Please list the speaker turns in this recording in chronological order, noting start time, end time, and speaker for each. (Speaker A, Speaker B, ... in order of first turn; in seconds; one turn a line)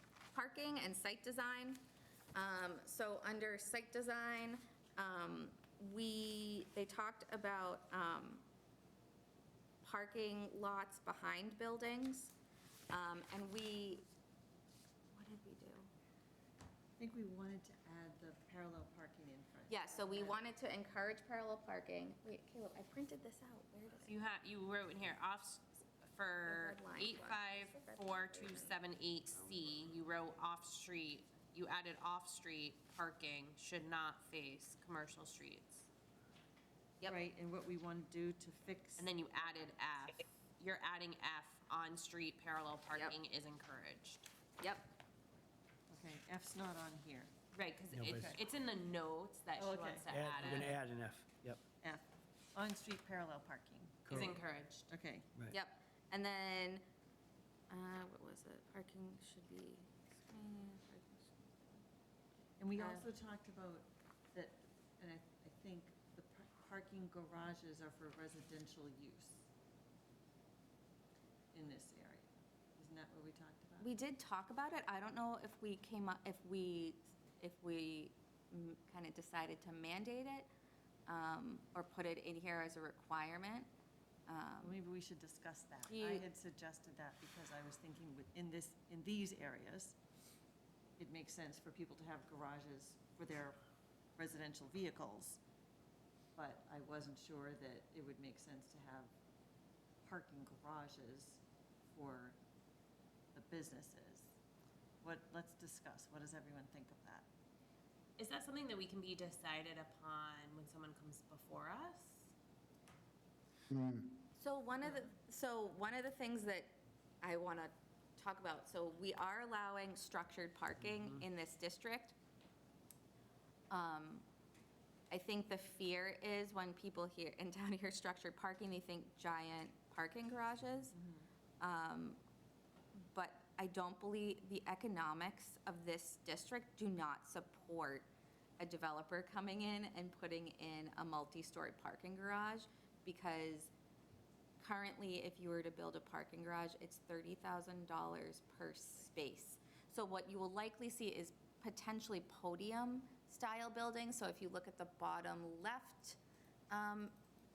Speaker A: 0.3-8.4
Speaker A: 9.8-12.3
Speaker A: 12.9-14.1
Speaker A: 15.1-15.9
Speaker B: 17.0-20.4
Speaker A: 19.7-24.1
Speaker C: 24.0-35.9
Speaker A: 26.4-28.7
Speaker B: 37.0-39.1
Speaker C: 39.0-44.3
Speaker A: 42.9-43.2
Speaker A: 44.6-44.9
Speaker B: 45.9-47.3
Speaker C: 47.5-50.8
Speaker D: 47.9-48.4
Speaker B: 49.5-50.7
Speaker D: 50.1-51.6
Speaker B: 51.8-54.3
Speaker D: 54.1-54.4
Speaker C: 54.1-54.9
Speaker B: 54.9-55.3
Speaker A: 55.5-56.8
Speaker A: 57.7-61.8
Speaker B: 62.6-69.4
Speaker A: 62.8-63.1
Speaker B: 71.5-73.9
Speaker A: 73.8-80.5
Speaker A: 81.1-83.7
Speaker A: 84.3-84.8
Speaker B: 84.6-90.0
Speaker A: 85.9-86.3
Speaker B: 91.0-93.6
Speaker B: 94.2-95.4
Speaker B: 96.3-99.1
Speaker B: 100.0-102.3
Speaker B: 103.3-104.3
Speaker B: 105.0-107.3
Speaker C: 108.2-112.3
Speaker A: 114.3-122.1
Speaker A: 123.7-124.2
Speaker A: 125.1-130.9
Speaker B: 130.9-131.3
Speaker A: 131.6-132.2
Speaker A: 133.0-143.7
Speaker A: 144.6-156.2
Speaker A: 156.7-157.2